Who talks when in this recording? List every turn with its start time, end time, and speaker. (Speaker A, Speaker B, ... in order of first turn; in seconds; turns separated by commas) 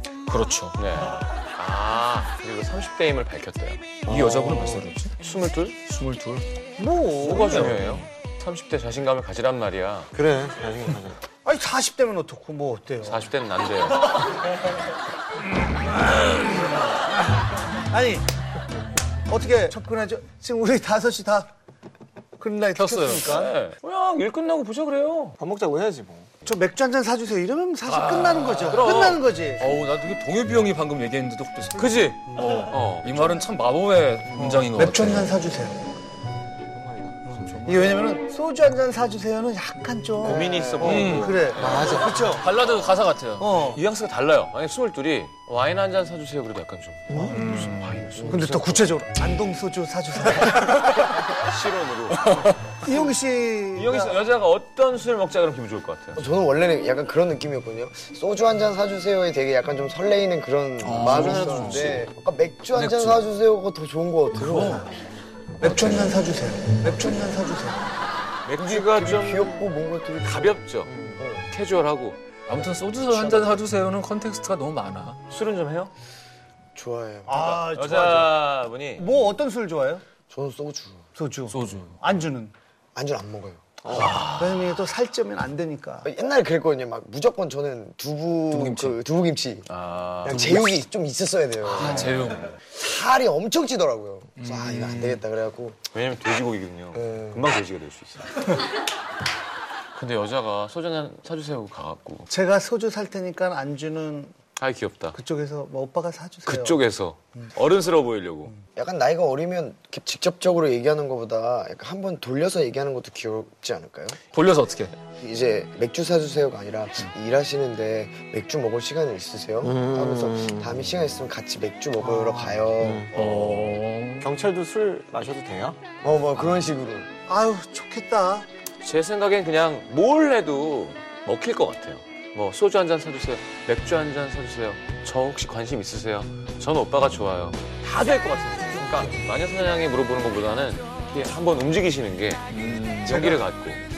Speaker A: 0.3-0.9, Speaker B: 0.8-4.0, Speaker C: 4.1-4.8, Speaker A: 4.1-5.1, Speaker B: 5.2-5.8, Speaker A: 5.9-6.5, Speaker D: 6.8-7.8, Speaker B: 7.2-10.1, Speaker A: 7.4-7.8, Speaker C: 10.1-11.2, Speaker D: 11.4-13.2, Speaker B: 13.0-14.1, Speaker D: 17.9-18.3, Speaker D: 19.3-21.5, Speaker D: 22.4-23.5, Speaker A: 22.8-23.3, Speaker B: 23.3-25.4, Speaker C: 25.4-26.4, Speaker D: 26.4-29.6, Speaker A: 27.9-28.9, Speaker B: 28.7-29.2, Speaker A: 29.6-35.3, Speaker B: 31.8-33.3, Speaker D: 34.3-35.8, Speaker C: 37.0-37.3, Speaker D: 37.3-42.5, Speaker A: 37.4-38.0, Speaker B: 40.2-43.0, Speaker E: 40.4-40.9, Speaker A: 40.8-43.6, Speaker D: 43.4-43.8, Speaker B: 43.6-49.0, Speaker D: 47.1-47.4, Speaker A: 47.3-48.4, Speaker D: 48.3-51.0, Speaker B: 51.2-53.1, Speaker D: 52.8-54.2, Speaker B: 53.7-56.2, Speaker E: 56.2-64.8, Speaker A: 60.8-62.0, Speaker D: 61.1-61.6, Speaker B: 62.7-63.3, Speaker A: 64.4-64.8, Speaker D: 64.5-64.9, Speaker D: 65.6-67.9, Speaker B: 68.5-69.6, Speaker E: 68.6-71.5, Speaker B: 70.2-72.2, Speaker A: 72.5-75.2, Speaker E: 73.1-73.5, Speaker B: 75.3-75.9, Speaker E: 76.8-77.7, Speaker D: 77.3-80.0, Speaker B: 77.7-79.1, Speaker E: 80.3-81.0, Speaker D: 81.2-82.5, Speaker A: 81.5-82.0, Speaker E: 83.0-84.2, Speaker D: 83.9-86.1, Speaker B: 84.0-84.6, Speaker E: 86.0-89.7, Speaker A: 88.5-89.0, Speaker B: 89.7-90.6, Speaker E: 90.2-92.2, Speaker A: 91.7-92.5, Speaker D: 91.8-92.1, Speaker E: 92.7-95.8, Speaker A: 94.5-95.2, Speaker B: 95.9-98.5, Speaker E: 97.0-97.5, Speaker B: 99.9-102.3, Speaker D: 102.3-104.3, Speaker B: 104.6-105.2, Speaker D: 105.1-106.8, Speaker B: 106.5-108.5, Speaker E: 108.8-114.2, Speaker A: 114.3-114.9, Speaker E: 115.1-123.1, Speaker C: 119.6-120.7, Speaker D: 122.0-122.6, Speaker C: 122.8-123.1, Speaker A: 123.1-124.3, Speaker C: 124.2-125.8, Speaker E: 126.0-127.1, Speaker D: 127.3-128.5, Speaker B: 128.8-143.8, Speaker A: 142.5-143.2, Speaker D: 143.1-143.4